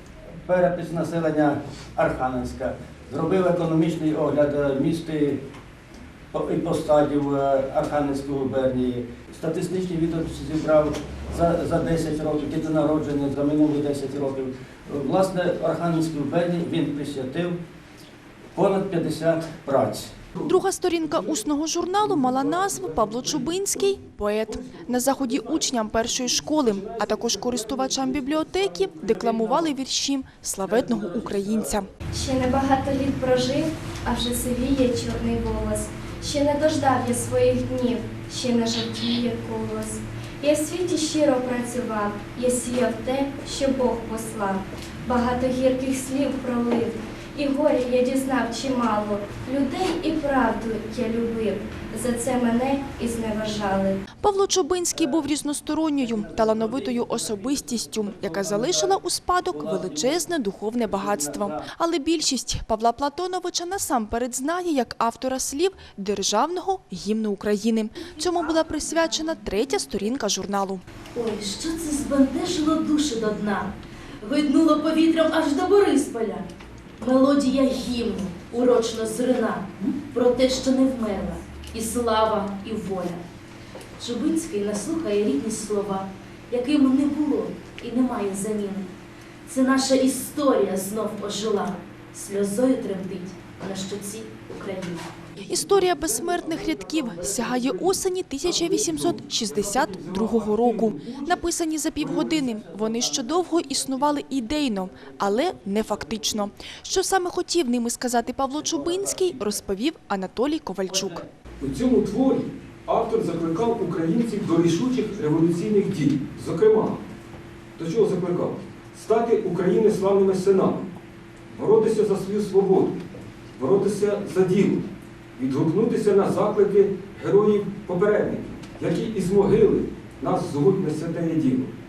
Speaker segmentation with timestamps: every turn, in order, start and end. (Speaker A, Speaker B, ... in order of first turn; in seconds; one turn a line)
Speaker A: 0.5-5.4
Speaker A: 6.3-17.6
Speaker A: 18.6-20.1
Speaker B: 20.4-21.4
Speaker C: 20.4-31.9
Speaker B: 22.0-23.9
Speaker B: 24.5-29.7
Speaker B: 30.7-31.7
Speaker D: 32.1-54.0
Speaker C: 54.2-70.8
Speaker A: 56.0-60.2
Speaker A: 60.9-61.7
Speaker E: 71.2-76.5
Speaker E: 77.0-83.2
Speaker E: 84.0-88.9
Speaker E: 89.5-95.1
Speaker C: 95.4-111.2
Speaker B: 95.5-101.5
Speaker A: 108.7-109.0
Speaker A: 110.9-111.2
Speaker B: 111.6-117.0
Speaker B: 117.8-120.9
Speaker B: 121.5-123.0
Speaker B: 123.6-124.8
Speaker B: 125.4-131.7